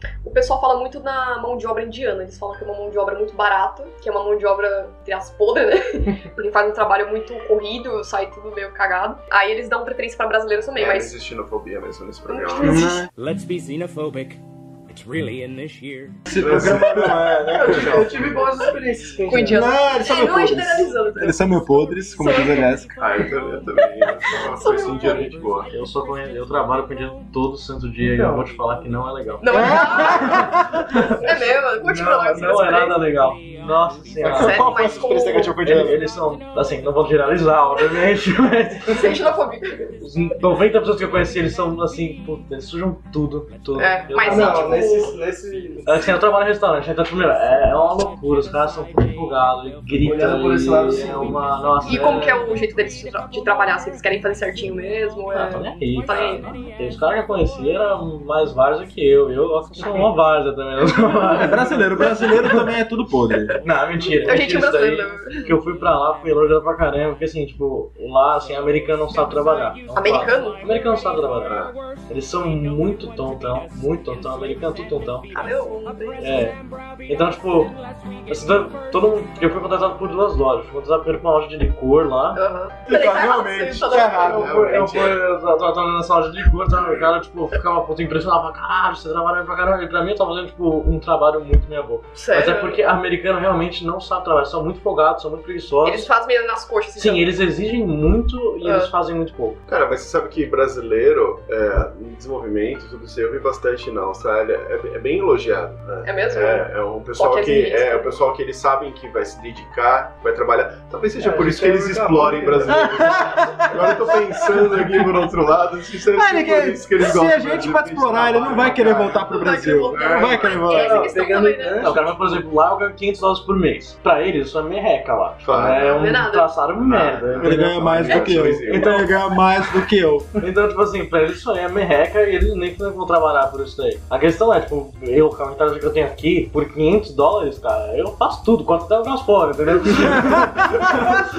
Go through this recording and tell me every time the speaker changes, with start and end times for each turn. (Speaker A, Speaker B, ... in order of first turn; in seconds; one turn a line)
Speaker A: 0.2-11.2
Speaker B: 10.8-12.9
Speaker A: 12.3-13.0
Speaker C: 12.6-13.1
Speaker D: 13.0-16.4
Speaker C: 16.3-18.4
Speaker B: 16.3-18.4
Speaker A: 17.6-18.7
Speaker E: 17.6-19.7
Speaker A: 19.3-22.7
Speaker C: 19.5-23.0
Speaker B: 23.0-25.7
Speaker A: 24.0-25.3
Speaker F: 25.7-30.3
Speaker E: 28.0-28.5
Speaker A: 29.4-30.5
Speaker C: 29.5-31.1
Speaker A: 31.1-33.1
Speaker F: 31.8-34.7
Speaker E: 31.9-32.7
Speaker C: 34.2-36.0
Speaker A: 34.3-35.6
Speaker F: 35.6-39.1
Speaker A: 38.9-40.0
Speaker F: 40.0-44.9
Speaker A: 43.8-45.1
Speaker E: 44.2-46.1
Speaker F: 45.9-52.5
Speaker E: 50.0-51.4
Speaker A: 51.8-56.5
Speaker F: 55.3-62.7
Speaker C: 61.4-63.6
Speaker F: 63.6-75.3
Speaker A: 64.2-65.5
Speaker A: 69.9-70.7
Speaker B: 71.5-71.7
Speaker A: 75.3-76.5
Speaker F: 76.2-82.4
Speaker A: 82.3-84.4
Speaker C: 82.8-84.9
Speaker B: 84.0-85.2
Speaker F: 84.3-96.1
Speaker A: 92.1-92.8
Speaker A: 95.8-97.3
Speaker F: 97.0-99.6
Speaker A: 98.6-98.9
Speaker B: 99.7-120.7
Speaker A: 106.0-108.1
Speaker E: 111.2-112.9
Speaker C: 112.9-114.7
Speaker C: 116.1-121.2
Speaker E: 118.5-118.9
Speaker A: 119.2-121.9
Speaker E: 120.7-122.4
Speaker F: 121.8-129.1
Speaker B: 125.4-126.2
Speaker A: 126.0-126.5
Speaker B: 126.8-129.1
Speaker C: 127.4-130.3
Speaker F: 130.4-140.6
Speaker C: 140.2-141.2